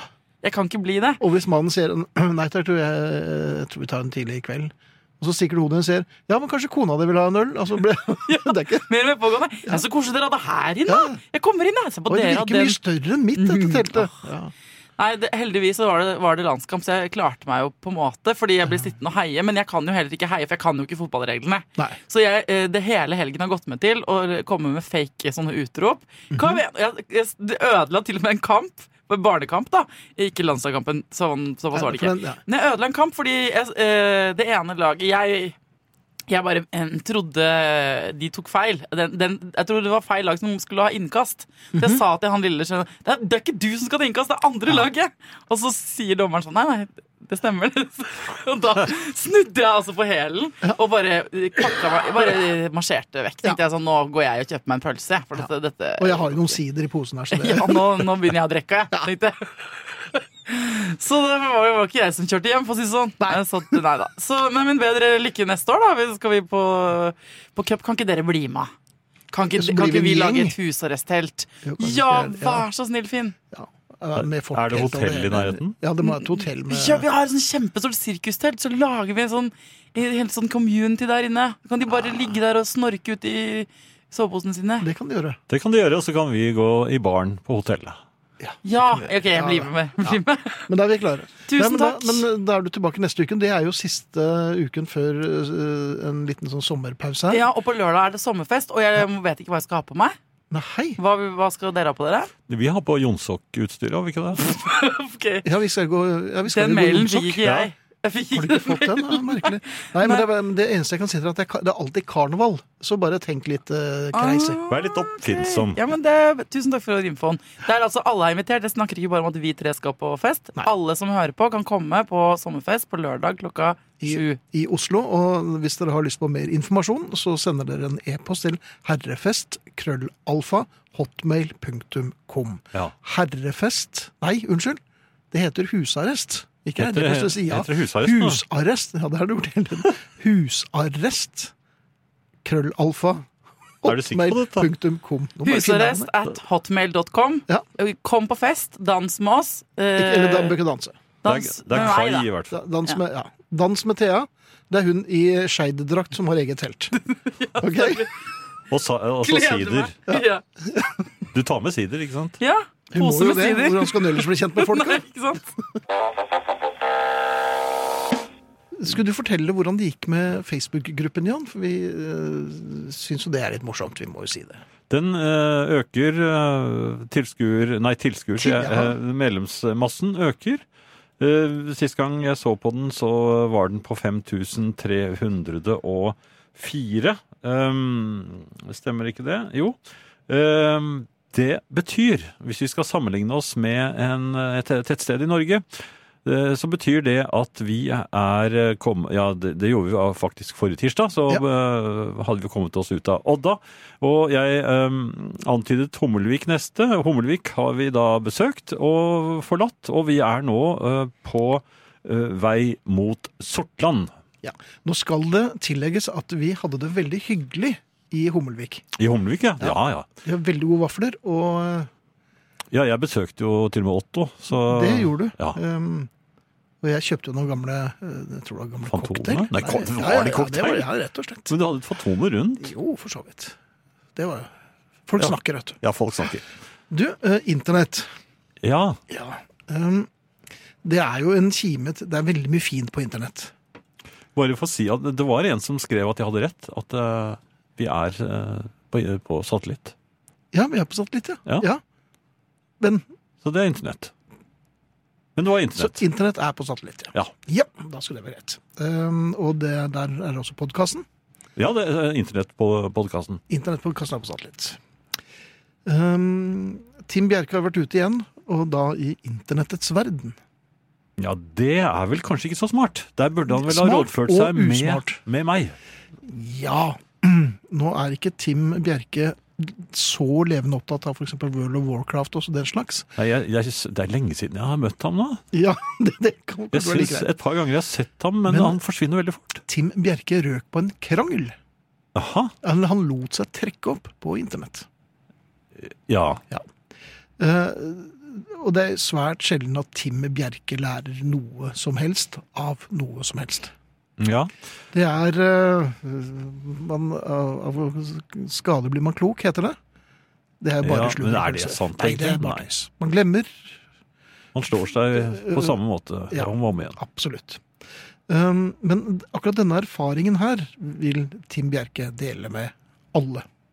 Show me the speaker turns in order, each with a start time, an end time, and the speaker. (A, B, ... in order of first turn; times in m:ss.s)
0:00.4-0:01.2 A
0:01.2-0:08.9 B
0:08.3-0:12.8 A
0:10.9-0:11.2 B
0:12.1-0:14.5 B
0:13.4-0:14.2 A
0:15.0-0:35.6 A
0:26.3-0:26.6 B
0:31.7-0:32.4 B
0:36.3-0:56.6 A
0:41.7-0:42.0 B
0:56.0-0:58.1 B
0:57.3-1:08.7 A
1:03.2-1:03.8 B
1:09.3-1:13.4 A
1:09.6-1:10.6 B
1:11.6-1:12.7 B
1:13.5-1:17.0 B
1:14.2-1:15.8 C
1:16.0-1:24.9 A
1:24.8-1:25.4 B
1:25.5-1:28.0 C
1:28.4-1:37.4 B
1:28.6-1:30.7 A
1:31.5-1:32.2 A
1:37.3-1:40.2 A
1:40.5-1:41.0 B
1:41.0-1:42.3 A
1:42.5-1:44.5 C
1:44.4-1:45.5 A
1:45.4-1:47.4 B
1:46.5-1:50.2 A
1:47.4-1:47.7 C
1:48.3-1:54.6 B
1:54.1-2:04.4 A
1:54.7-1:55.8 C
2:04.0-2:21.5 B
2:16.8-2:18.4 C
2:22.4-2:23.3 B
2:23.8-2:26.1 B
2:23.8-2:24.7 C
2:25.4-2:30.6 A
2:30.0-2:31.0 B
2:31.2-2:32.3 A
2:31.2-2:32.6 C
2:32.5-2:36.9 B
2:37.0-2:38.1 A
2:37.6-2:38.0 B
2:38.7-2:40.0 C
2:39.2-2:40.4 A
2:40.1-2:40.8 B
2:41.3-2:42.4 C
2:42.4-2:45.5 A
2:42.9-2:45.0 B
2:48.8-2:54.6 B
2:54.9-3:00.6 C
2:58.4-2:59.0 B
3:01.2-3:09.8 C
3:10.3-3:15.6 C
3:16.2-3:34.1 C
3:34.4-3:38.8 B
3:39.0-3:40.1 C
3:39.6-3:41.9 B
3:42.7-3:45.6 C
3:44.6-3:46.1 B
3:46.8-3:51.5 B
3:48.9-3:50.9 C
3:51.5-3:52.7 C
3:52.6-3:53.6 B
3:54.2-3:54.5 B
3:55.1-3:55.8 B
3:55.2-3:56.4 C
3:56.9-3:58.1 B
3:58.6-3:59.0 C
3:59.1-4:00.1 B
4:00.8-4:03.5 B
4:04.4-4:09.9 C
4:10.5-4:11.8 B
4:12.8-4:13.0 B
4:13.4-4:14.1 C
4:15.4-4:16.0 C
4:15.8-4:21.1 B
4:21.6-4:23.4 C
4:23.5-4:24.8 B
4:25.8-4:30.4 B
4:31.2-4:35.8 C
4:33.5-4:35.2 B
4:36.2-4:43.1 B
4:43.2-4:45.4 C
4:45.5-4:47.3 B
4:46.7-4:49.6 C
4:48.5-4:48.8 B
4:49.7-4:51.6 B
4:52.2-4:52.5 C
4:52.6-4:54.9 B
4:55.8-4:56.4 C
4:57.4-5:03.7 B
5:04.2-5:04.5 C
5:04.9-5:09.8 B
5:10.6-5:13.8 B
5:10.8-5:12.7 C
5:14.6-5:17.0 C
5:15.1-5:15.8 B
5:16.3-5:17.6 B
5:18.3-5:23.5 B